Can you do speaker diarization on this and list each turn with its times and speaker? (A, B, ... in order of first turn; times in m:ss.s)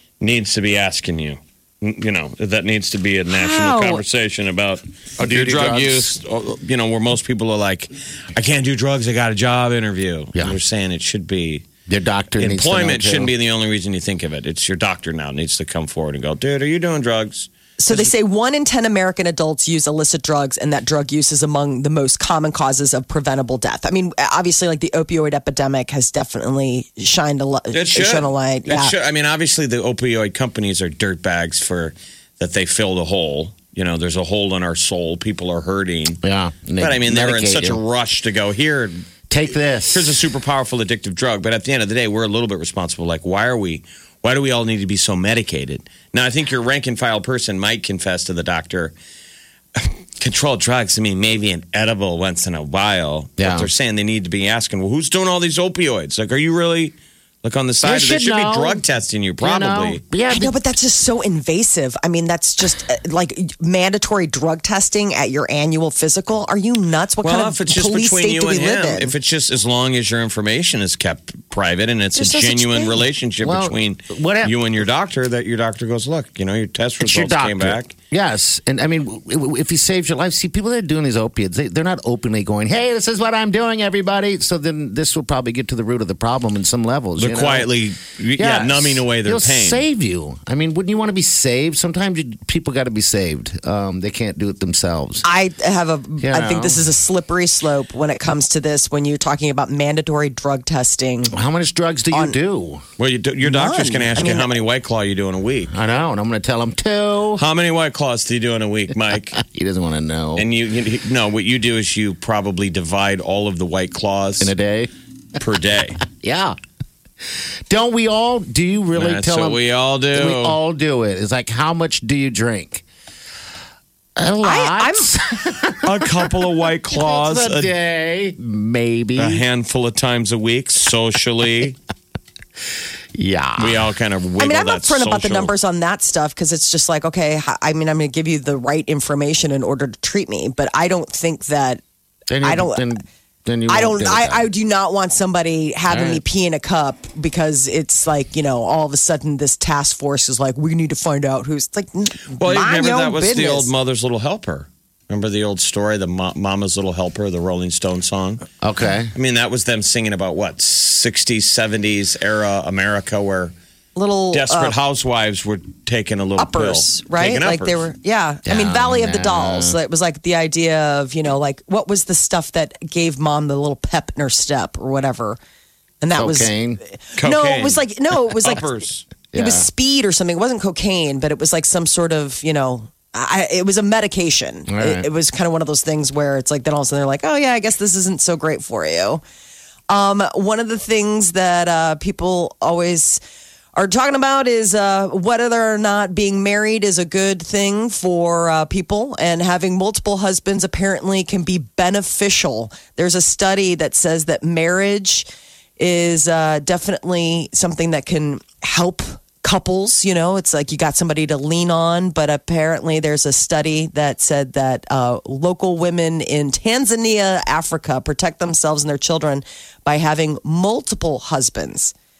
0:00.2-0:11.7 A
0:03.3-0:04.0 B
0:05.2-0:06.2 C
0:11.9-0:13.3 C
0:12.4-0:18.1 A
0:17.8-0:28.9 B
0:27.7-0:36.2 A
0:36.2-0:37.8 C
0:36.8-0:39.0 A
0:39.3-0:40.2 C
0:39.9-0:48.9 A
0:49.8-1:00.0 A
0:53.4-0:53.7 C
0:57.8-0:58.8 C
0:59.4-1:00.5 C
1:00.3-1:09.1 B
1:07.2-1:17.9 A
1:12.2-1:13.0 B
1:13.4-1:14.6 C
1:17.0-1:27.7 C
1:27.2-1:29.8 A
1:28.4-1:35.2 C
1:35.2-1:41.3 B
1:36.2-1:36.8 C
1:41.3-1:42.8 C
1:42.1-1:42.4 B
1:43.0-1:45.7 A
1:43.4-1:44.5 B
1:45.7-1:47.4 C
1:47.4-1:49.4 A
1:49.4-1:50.5 C
1:50.4-1:54.5 A
1:54.4-1:54.9 C
1:55.4-1:56.0 A
1:56.0-1:56.6 C
1:57.7-1:59.6 C
1:58.9-2:00.6 A
2:00.1-2:02.8 C
2:04.2-2:09.4 C
2:04.4-2:05.2 B
2:05.8-2:07.7 A
2:09.2-2:11.8 A
2:13.1-2:13.8 C
2:13.6-2:15.5 A
2:14.4-2:21.8 B
2:22.3-2:24.5 C
2:22.4-2:22.8 B
2:23.7-2:33.7 B
2:25.9-2:26.2 C
2:32.4-2:38.4 A
2:38.6-2:39.1 C
2:39.1-2:43.5 A
2:44.0-2:44.8 B
2:44.3-2:47.8 A
2:46.4-2:55.4 B
2:48.4-2:49.8 C
2:56.0-2:58.6 B
2:56.1-2:56.8 C
2:57.2-2:59.1 A
2:59.3-2:59.7 C
2:59.3-3:09.2 B
3:04.7-3:05.1 C
3:09.9-3:13.2 B
3:13.7-3:25.3 B
3:25.8-3:41.9 B